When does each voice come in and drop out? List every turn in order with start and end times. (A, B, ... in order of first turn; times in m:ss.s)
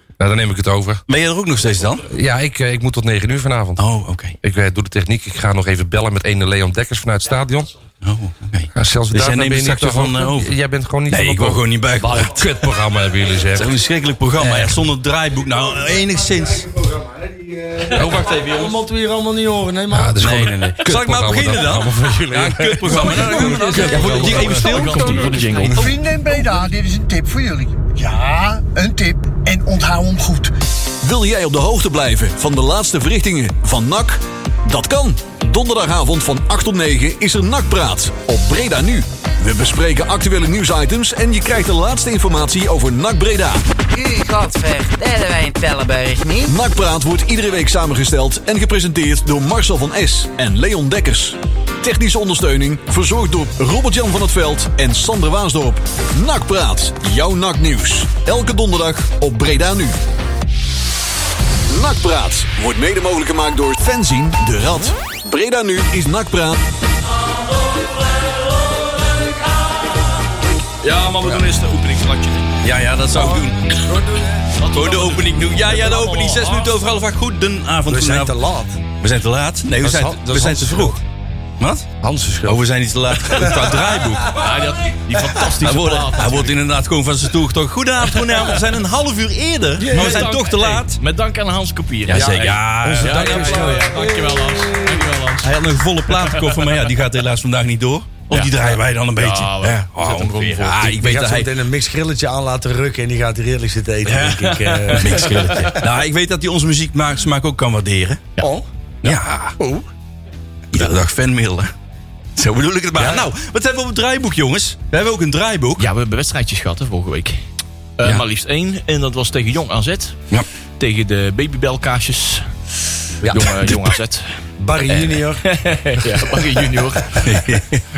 0:00.2-0:01.0 A
0:01.1-0:02.0 B
0:02.1-0:03.8 A
0:03.8-0:04.4 B
0:04.4-0:07.7 A
0:08.0-0:10.5 B
0:08.8-0:13.8 A
0:11.1-0:12.6 B
0:13.5-0:16.7 B
0:16.6-0:20.6 C
0:18.0-0:18.7 A
0:19.9-0:25.9 A
0:20.2-0:25.8 B
0:22.9-0:25.9 D
0:23.8-0:24.6 C
0:24.9-0:25.3 E
0:25.7-0:30.5 F
0:31.0-0:43.6 G
0:43.9-0:46.5 E
0:46.5-1:00.0 G
1:01.7-1:06.6 G
1:10.8-1:12.5 D
1:12.6-1:13.8 B
1:13.1-1:14.5 C
1:14.6-1:16.8 D
1:14.7-1:18.4 B
1:17.9-1:18.8 C
1:19.0-1:21.0 B
1:19.8-1:21.0 C
1:21.6-1:21.9 B
1:22.0-1:22.6 C
1:22.5-1:24.6 B
1:23.3-1:24.5 C
1:24.2-1:26.6 D
1:25.6-1:31.0 B
1:28.2-1:28.6 D
1:29.8-1:30.3 C
1:29.9-1:35.6 D
1:32.1-1:33.9 B
1:32.1-1:35.1 C
1:35.4-1:41.5 B
1:36.1-1:36.9 D
1:38.3-1:40.9 D
1:40.8-1:45.8 C
1:44.1-1:48.2 B
1:44.2-1:45.8 D
1:48.4-1:49.8 C
1:49.0-1:49.6 B
1:50.7-1:51.7 B
1:52.4-1:55.9 B
1:53.0-1:53.3 C
1:55.8-1:57.4 D
1:58.0-2:00.2 D
2:00.8-2:02.5 D
2:03.2-2:04.3 D
2:03.3-2:03.9 B
2:04.6-2:05.4 C
2:04.9-2:07.6 D
2:07.1-2:07.8 B